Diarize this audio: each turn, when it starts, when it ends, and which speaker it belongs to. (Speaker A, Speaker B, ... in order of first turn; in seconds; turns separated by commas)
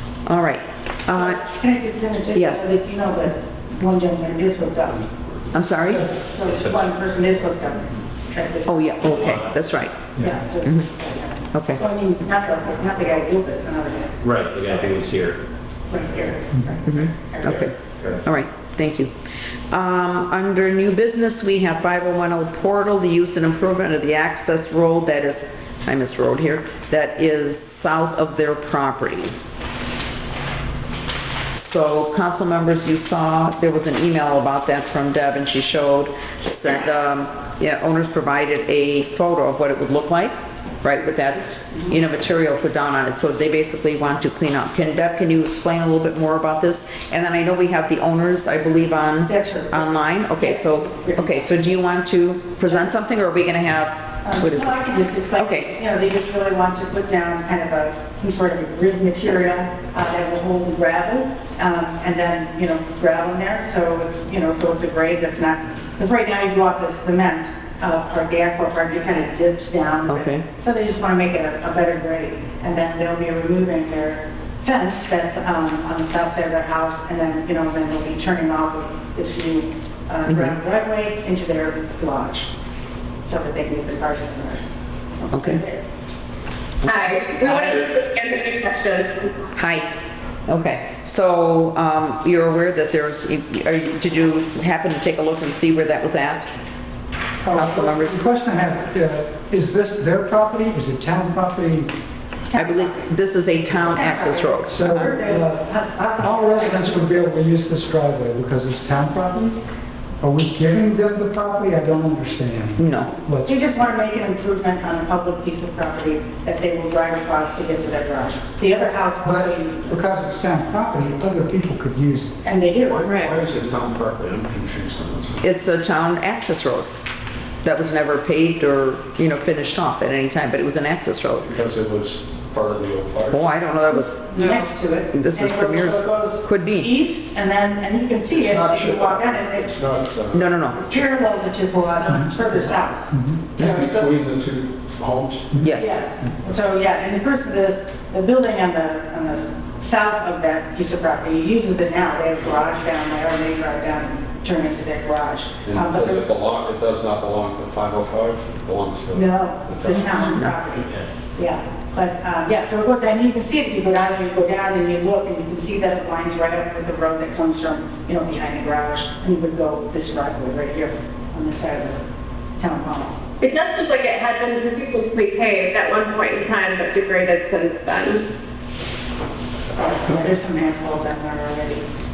Speaker A: 0.2-1.4, Speaker B: 1.1-5.1, Speaker A: 2.3-2.7, Speaker A: 5.5-6.1, Speaker B: 6.2-8.9, Speaker C: 6.4-6.9, Speaker A: 8.6-10.0, Speaker C: 9.0-9.6, Speaker B: 10.2-14.2, Speaker A: 11.5-11.8, Speaker C: 14.2-15.4, Speaker B: 15.9-17.7, Speaker A: 16.9-17.7, Speaker C: 17.4-18.2, Speaker A: 18.2-19.1, Speaker A: 19.7-29.3, Speaker A: 31.6-54.7, Speaker B: 49.3-51.6, Speaker B: 54.2-82.5, Speaker A: 55.4-55.7, Speaker A: 70.1-70.5, Speaker A: 80.3-80.6, Speaker B: 83.2-84.6, Speaker B: 85.2-85.8, Speaker A: 85.3-85.6, Speaker D: 86.8-89.3, Speaker A: 86.9-87.8, Speaker A: 89.5-89.9, Speaker A: 90.5-96.5, Speaker E: 97.4-101.9, Speaker A: 97.5-98.3, Speaker B: 102.4-103.1, Speaker A: 102.5-105.1, Speaker B: 103.9-107.2, Speaker E: 104.7-109.6, Speaker E: 110.2-113.6, Speaker A: 112.8-113.1, Speaker B: 113.5-120.0, Speaker E: 119.2-122.4, Speaker B: 122.4-123.1, Speaker F: 122.8-125.5, Speaker A: 125.4-127.0, Speaker A: 127.6-131.5, Speaker F: 131.4-133.5, Speaker A: 133.3-134.3, Speaker B: 134.3-139.7, Speaker D: 134.3-134.7, Speaker A: 135.1-136.9, Speaker F: 138.3-140.6, Speaker A: 140.3-140.8, Speaker B: 140.7-143.1, Speaker E: 143.1-143.7, Speaker F: 143.6-145.6, Speaker A: 145.6-146.1, Speaker B: 145.7-156.2, Speaker F: 155.7-160.2, Speaker B: 159.1-172.0, Speaker A: 160.1-160.5, Speaker B: 172.6-173.2, Speaker D: 173.4-178.2, Speaker B: 179.8-181.8